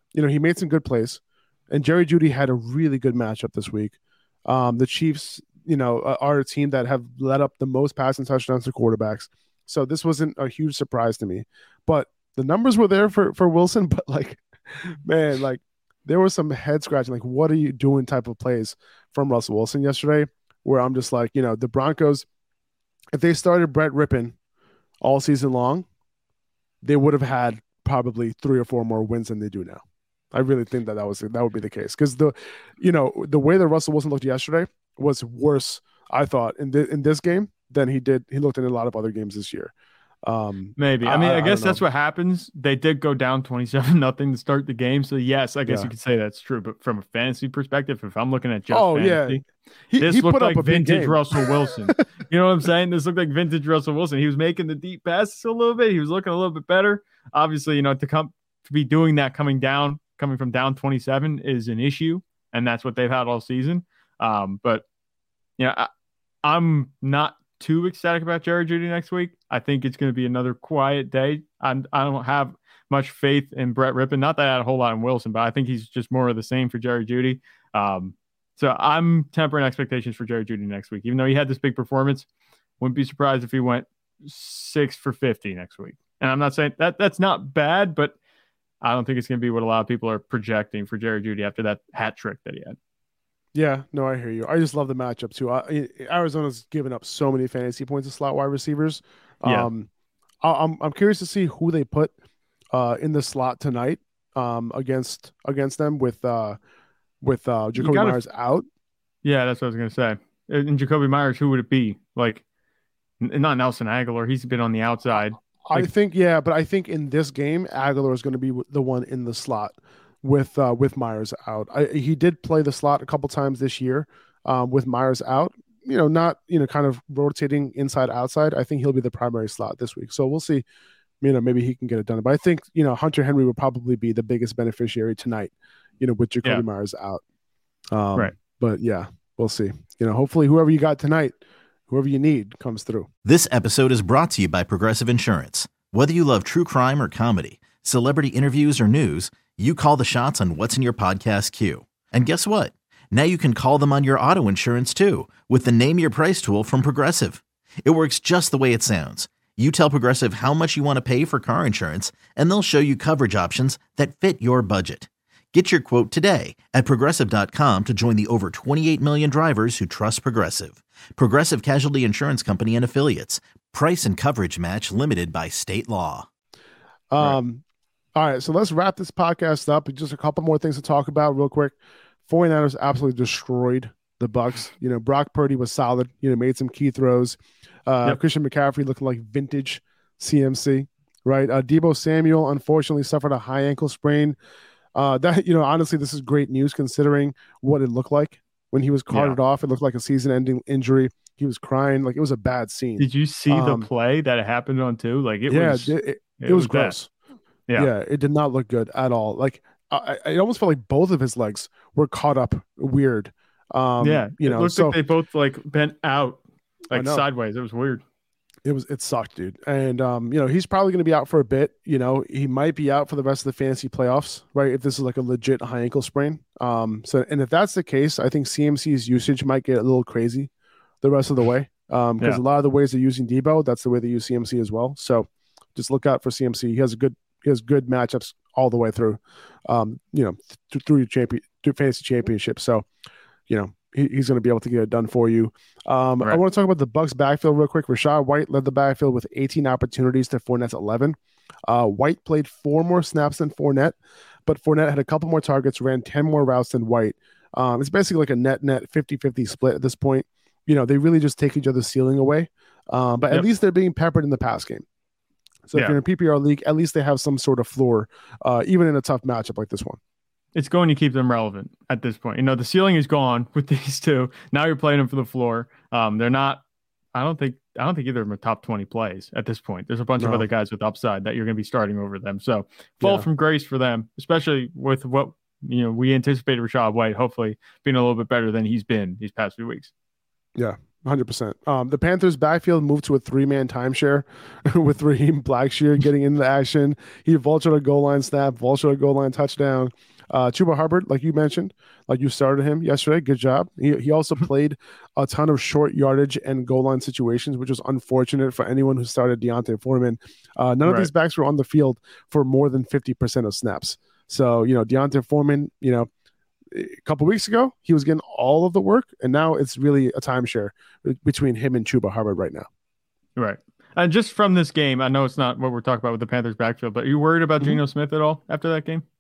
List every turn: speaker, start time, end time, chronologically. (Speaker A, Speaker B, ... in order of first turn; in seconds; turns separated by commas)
Speaker A: 0.1-22.2, Speaker A: 23.1-24.4, Speaker A: 25.0-25.9, Speaker A: 26.8-29.8, Speaker A: 30.3-39.7, Speaker A: 40.2-41.8, Speaker B: 40.8-49.4, Speaker A: 45.7-45.9, Speaker A: 48.7-52.0, Speaker B: 50.0-64.8, Speaker B: 65.6-65.9, Speaker B: 66.4-82.3, Speaker B: 82.8-88.2, Speaker B: 88.8-92.8, Speaker A: 93.5-99.9, Speaker B: 99.5-99.7, Speaker A: 100.4-102.1, Speaker A: 102.7-106.6, Speaker A: 107.2-108.7, Speaker B: 107.8-108.3, Speaker B: 109.2-112.4, Speaker B: 113.2-115.9, Speaker A: 115.2-130.7, Speaker A: 131.2-137.2, Speaker A: 137.9-141.4, Speaker A: 141.9-143.1, Speaker C: 143.2-176.3, Speaker A: 177.1-177.6, Speaker A: 178.2-181.8, Speaker A: 182.3-194.4, Speaker A: 194.9-203.9, Speaker B: 199.1-199.4, Speaker B: 203.0-207.0, Speaker A: 205.5-207.1, Speaker A: 207.8-215.0, Speaker B: 214.0-218.0, Speaker A: 216.9-217.2, Speaker A: 218.7-230.5, Speaker A: 231.0-242.9, Speaker A: 243.5-264.8, Speaker A: 265.7-270.0, Speaker B: 270.6-276.6, Speaker B: 277.1-289.9, Speaker A: 280.2-280.5, Speaker A: 283.0-283.3, Speaker A: 290.6-316.1, Speaker B: 310.9-311.1, Speaker A: 316.7-322.7, Speaker B: 323.4-329.0